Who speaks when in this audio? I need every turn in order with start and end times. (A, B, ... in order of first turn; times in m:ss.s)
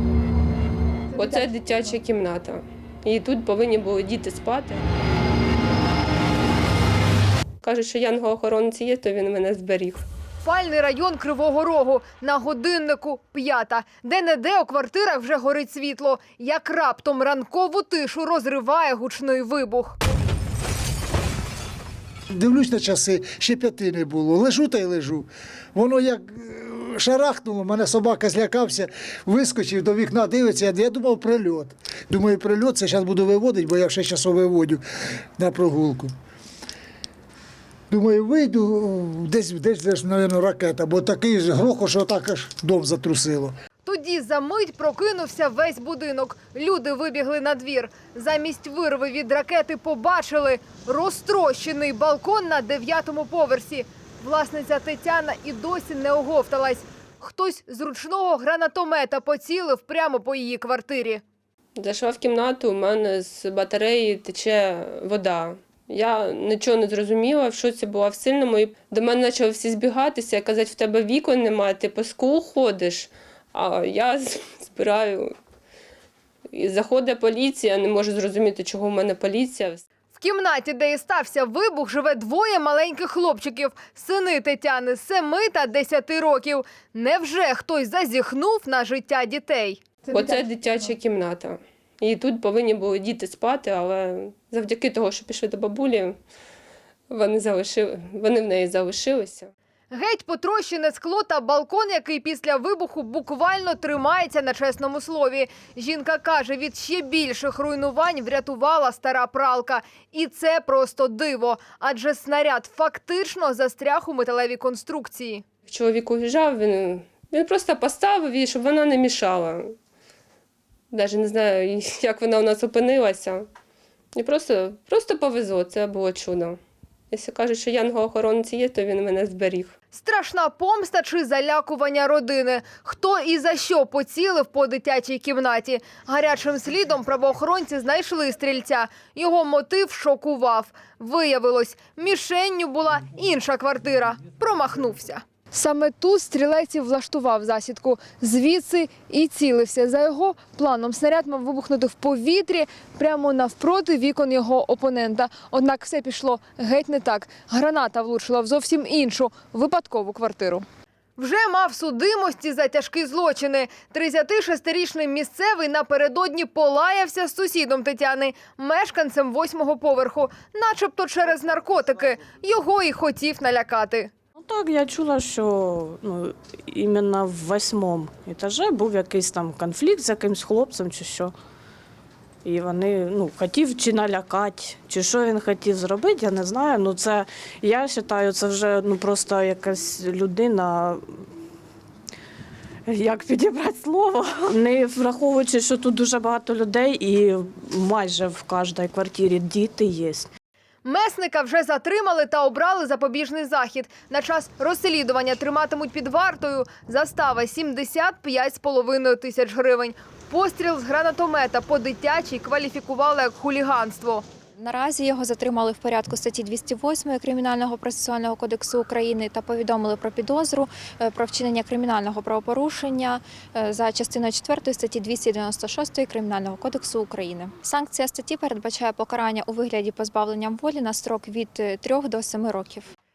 0:01.1-0:04.8 A
0:01.2-0:01.5 B
0:07.6-0:10.0 A
0:10.4-0:20.0 B
0:22.3-0:34.8 C
0:35.4-0:36.1 C
0:37.9-0:43.5 C
0:43.8-1:01.2 B
1:01.8-1:15.4 A
1:16.5-1:19.8 A
1:20.2-1:30.4 B
1:30.1-1:36.2 A
1:37.1-1:39.5 A
1:39.9-1:55.4 B
1:55.7-1:59.8 A
2:00.9-2:03.5 A
2:04.1-2:06.6 A
2:07.1-2:09.7 A
2:09.9-2:40.6 B
2:41.2-2:54.1 B
2:54.5-3:01.3 D
3:02.5-3:11.0 D
3:12.9-3:20.3 D
3:20.8-3:34.2 B
3:34.6-3:52.9 E